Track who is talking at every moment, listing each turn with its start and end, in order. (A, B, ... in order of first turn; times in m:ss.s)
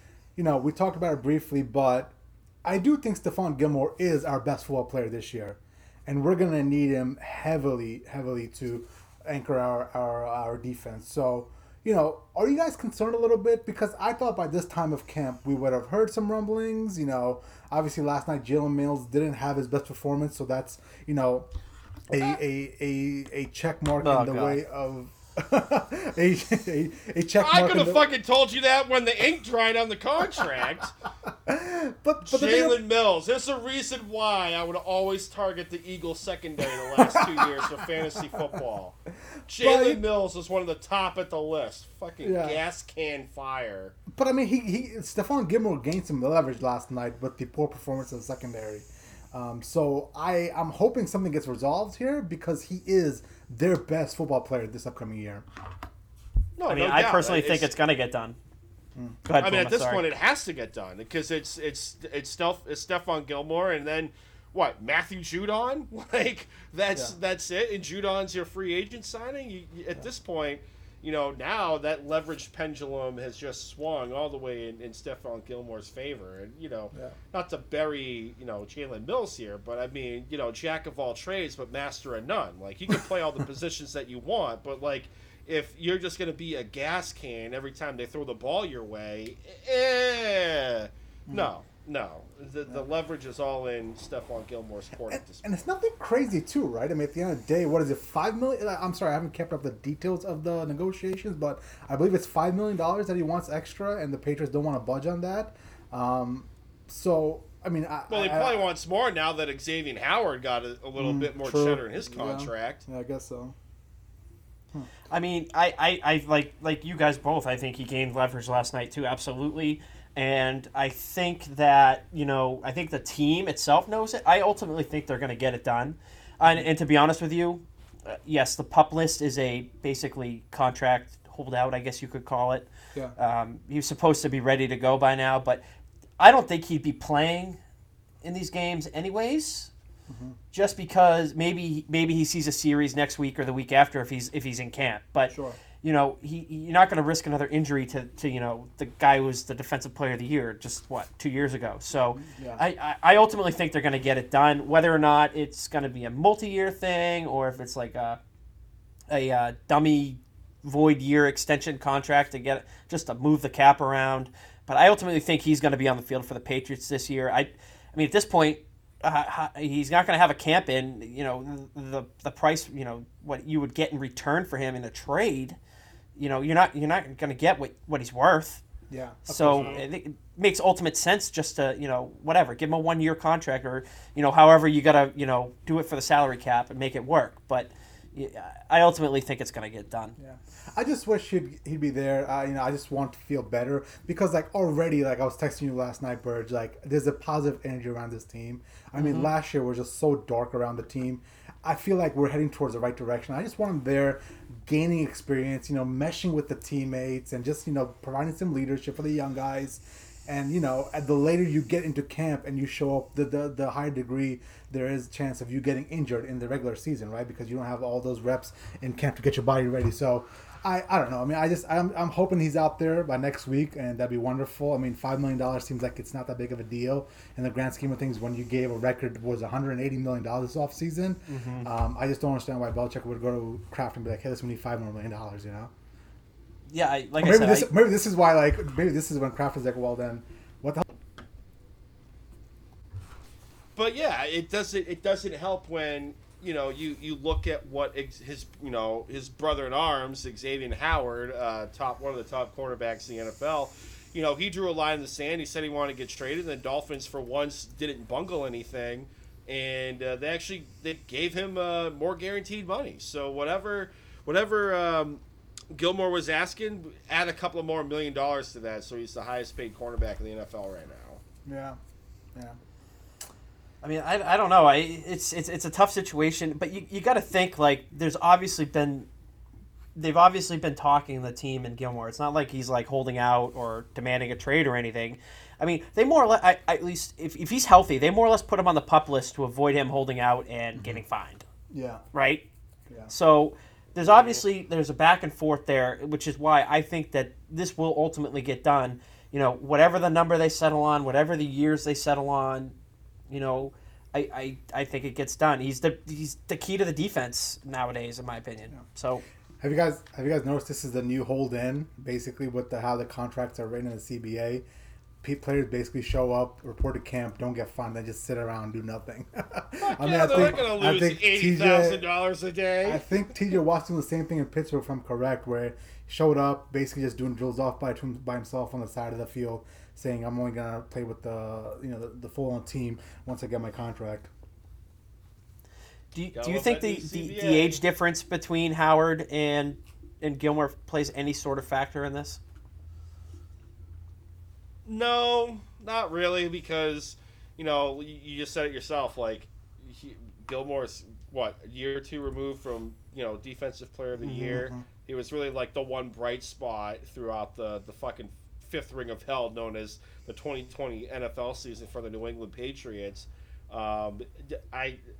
0:00.4-0:21.5 A
0:22.1-0:28.1 A
0:24.0-0:24.6 B
0:27.4-0:30.9 C
0:31.3-0:32.8 A
0:32.2-0:44.0 C
0:37.0-0:38.6 A
0:39.6-0:40.0 A
0:42.2-0:42.6 A
0:44.1-0:55.5 A
0:56.6-0:57.7 C
0:56.7-0:58.4 B
0:59.2-1:00.0 B
0:59.4-1:35.5 C
1:35.1-1:48.7 A
1:48.1-1:52.8 C
1:51.0-1:53.6 A
1:55.1-2:15.6 B
2:16.2-2:17.6 B
2:18.2-2:19.7 B
2:20.1-2:20.4 A
2:20.5-2:38.2 B
2:25.3-2:25.6 A
2:32.1-2:32.6 A
2:39.1-2:55.6 B
2:56.2-2:58.6 B
2:58.9-2:59.8 A
2:59.3-3:10.2 B
2:59.5-2:59.8 C
3:10.2-3:55.7 A
3:19.0-3:19.3 B
3:51.3-3:51.7 B
3:56.7-3:57.7 B
3:57.2-4:00.8 A
4:03.8-4:31.2 C
4:31.4-4:31.8 A
4:33.8-4:39.1 B
4:40.0-4:51.5 B
4:50.8-4:51.0 A
4:51.7-4:52.0 A
4:52.1-4:52.5 B
4:53.1-5:02.8 B
4:54.1-4:54.4 C
5:03.3-5:09.2 B
5:09.6-5:14.6 A
5:15.2-5:22.0 A
5:19.8-5:23.0 C
5:22.8-5:34.3 A
5:36.1-5:42.4 B
5:36.4-5:37.8 C
5:44.9-6:05.0 C
5:54.2-5:54.8 A